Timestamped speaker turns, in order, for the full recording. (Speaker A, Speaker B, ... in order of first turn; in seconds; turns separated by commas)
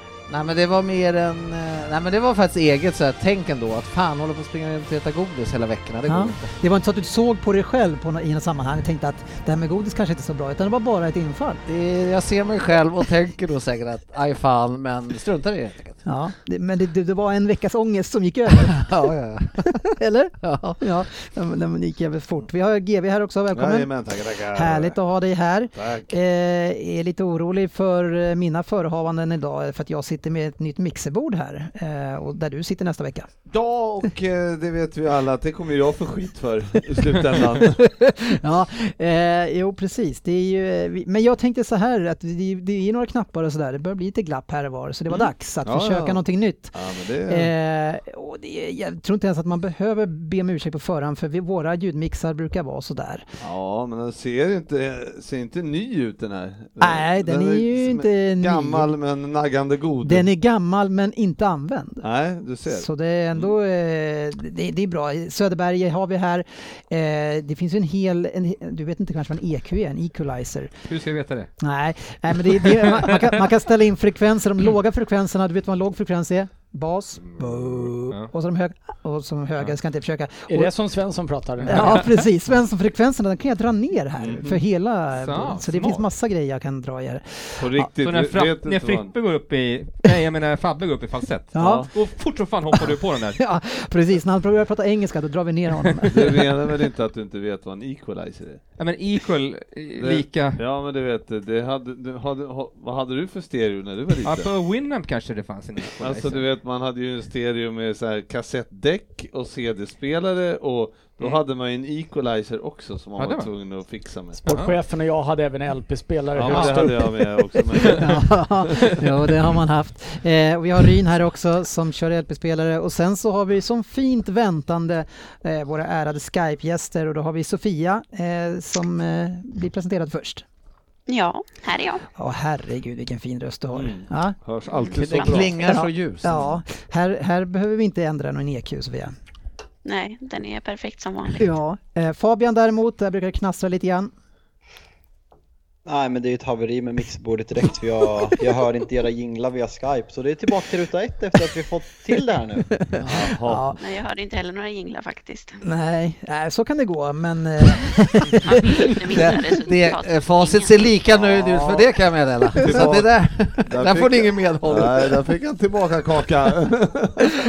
Speaker A: 0.3-6.6, Speaker B: 6.1-11.6, Speaker A: 11.7-16.0, Speaker B: 16.0-18.9, Speaker A: 18.7-19.7, Speaker B: 19.9-33.3, Speaker A: 20.4-20.8, Speaker C: 23.5-25.0, Speaker C: 25.7-26.2, Speaker C: 33.5-37.8, Speaker B: 37.6-53.4, Speaker C: 45.6-47.5, Speaker C: 53.4-60.3, Speaker B: 56.8-58.9, Speaker B: 60.0-62.0, Speaker C: 62.0-63.5, Speaker B: 62.6-70.7, Speaker D: 70.9-71.5, Speaker B: 71.6-80.7, Speaker D: 72.5-73.2, Speaker D: 77.3-78.3, Speaker E: 80.5-82.0, Speaker D: 81.7-82.0, Speaker B: 81.7-87.9, Speaker C: 84.2-84.6, Speaker D: 85.1-86.0, Speaker C: 87.6-89.1, Speaker D: 88.0-93.4, Speaker B: 91.5-91.8, Speaker C: 91.5-91.9, Speaker B: 92.7-96.5, Speaker C: 96.1-98.6, Speaker D: 98.8-100.6, Speaker C: 100.0-104.5, Speaker D: 104.2-106.4, Speaker C: 106.0-114.4, Speaker D: 113.2-113.5, Speaker E: 114.4-117.6, Speaker D: 114.4-114.7, Speaker C: 116.3-118.9, Speaker B: 116.5-117.0, Speaker B: 118.0-130.4, Speaker F: 131.1-132.0, Speaker B: 132.2-134.4, Speaker C: 133.7-135.5, Speaker A: 134.9-136.5, Speaker B: 135.6-139.1, Speaker F: 139.8-141.4, Speaker B: 141.4-144.1, Speaker G: 145.8-152.7, Speaker B: 152.7-153.8, Speaker C: 153.0-153.7, Speaker F: 153.8-155.6, Speaker B: 155.6-158.9, Speaker F: 158.4-160.9, Speaker A: 159.1-165.2, Speaker C: 161.1-161.9, Speaker C: 162.5-167.3